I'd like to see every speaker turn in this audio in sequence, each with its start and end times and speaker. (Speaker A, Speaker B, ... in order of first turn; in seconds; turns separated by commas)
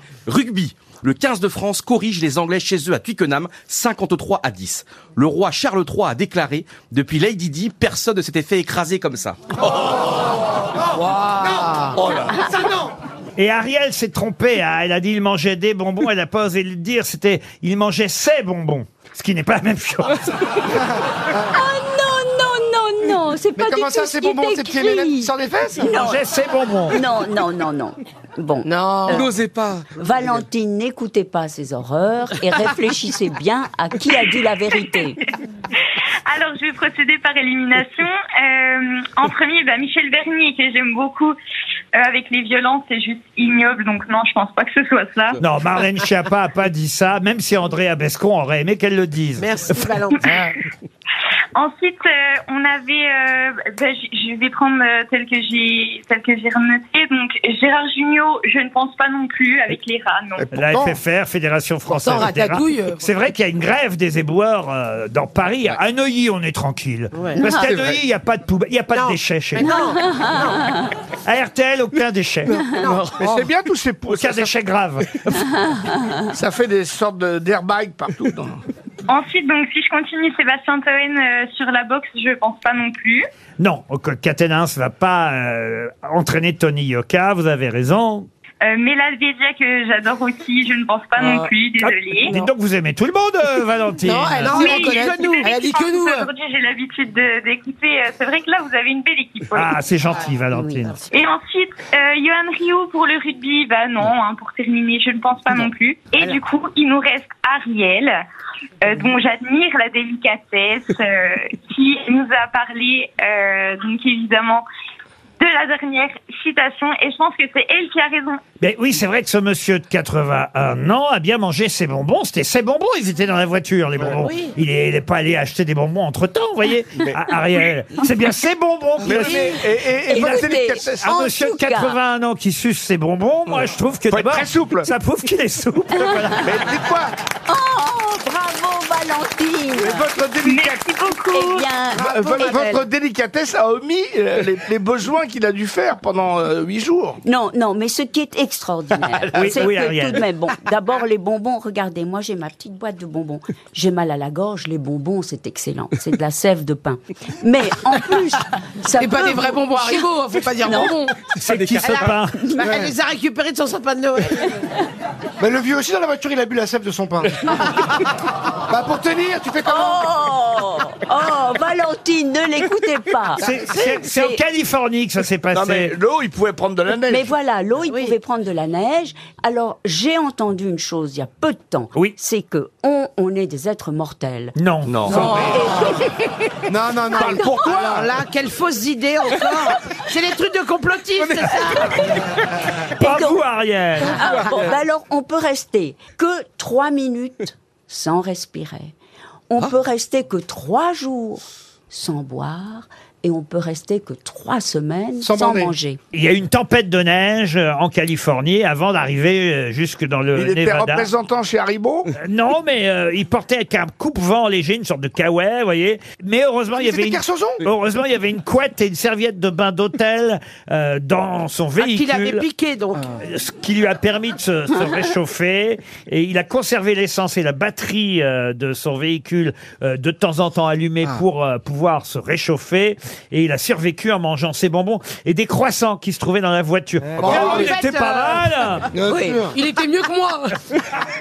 Speaker A: 0.3-9.8, Speaker B: 11.1-11.9, Speaker A: 11.9-12.2, Speaker C: 13.4-20.6, Speaker D: 21.4-26.2, Speaker E: 23.5-25.9, Speaker C: 25.9-27.0, Speaker D: 26.9-29.3, Speaker B: 28.6-29.3, Speaker A: 29.1-29.8, Speaker D: 29.9-35.2, Speaker F: 36.2-41.3, Speaker F: 41.9-45.4, Speaker C: 45.4-49.9, Speaker B: 49.4-50.3, Speaker F: 50.2-50.5, Speaker F: 51.5-60.5, Speaker C: 60.5-70.3, Speaker G: 62.0-63.0, Speaker B: 62.1-62.4, Speaker B: 67.1-67.4, Speaker H: 67.6-68.0, Speaker B: 68.9-70.6, Speaker D: 69.6-70.9, Speaker C: 71.2-72.7, Speaker B: 72.7-73.2, Speaker H: 72.9-74.6, Speaker C: 74.1-75.1, Speaker H: 76.3-78.6, Speaker F: 79.1-83.2, Speaker C: 83.6-88.3, Speaker F: 88.6-92.3, Speaker B: 91.2-91.5, Speaker C: 91.8-94.7, Speaker B: 94.0-96.2, Speaker F: 94.5-99.7, Speaker G: 95.7-96.1, Speaker C: 99.5-101.0, Speaker D: 100.5-100.9, Speaker F: 101.1-108.1, Speaker F: 108.8-114.6, Speaker F: 115.4-118.4, Speaker C: 118.6-129.6, Speaker B: 124.2-124.5, Speaker H: 129.0-131.2, Speaker D: 129.1-132.0, Speaker C: 130.1-136.7, Speaker H: 133.5-134.9, Speaker H: 136.4-137.1, Speaker D: 137.5-140.1, Speaker H: 139.8-140.8, Speaker F: 140.4-141.7, Speaker D: 141.3-142.7, Speaker B: 141.9-142.8, Speaker H: 142.0-147.2, Speaker D: 147.2-161.0, Speaker H: 149.0-149.6, Speaker C: 149.3-150.2, Speaker B: 158.9-161.2, Speaker C: 161.4-162.4, Speaker A: 161.5-162.1, Speaker B: 161.8-164.6, Speaker E: 162.6-162.9, Speaker E: 165.4-167.4, Speaker E: 168.7-170.1, Speaker D: 169.6-174.4, Speaker C: 173.4-175.9, Speaker H: 175.5-177.3, Speaker D: 177.1-186.1, Speaker B: 177.9-178.2, Speaker C: 184.6-185.4, Speaker H: 184.9-185.6, Speaker B: 185.1-186.1, Speaker E: 186.7-188.1, Speaker B: 187.1-191.9, Speaker H: 187.2-187.8, Speaker D: 193.0-193.4, Speaker C: 193.0-194.2, Speaker B: 194.0-194.7, Speaker D: 194.0-198.9, Speaker D: 199.5-206.0, Speaker E: 205.2-205.7, Speaker C: 206.1-211.1, Speaker H: 210.3-212.1, Speaker C: 212.2-222.4, Speaker E: 216.8-217.7, Speaker B: 221.8-223.1, Speaker C: 223.2-238.9, Speaker E: 237.2-237.8, Speaker B: 237.5-238.3, Speaker E: 238.9-239.6, Speaker B: 239.1-239.5, Speaker G: 239.5-240.5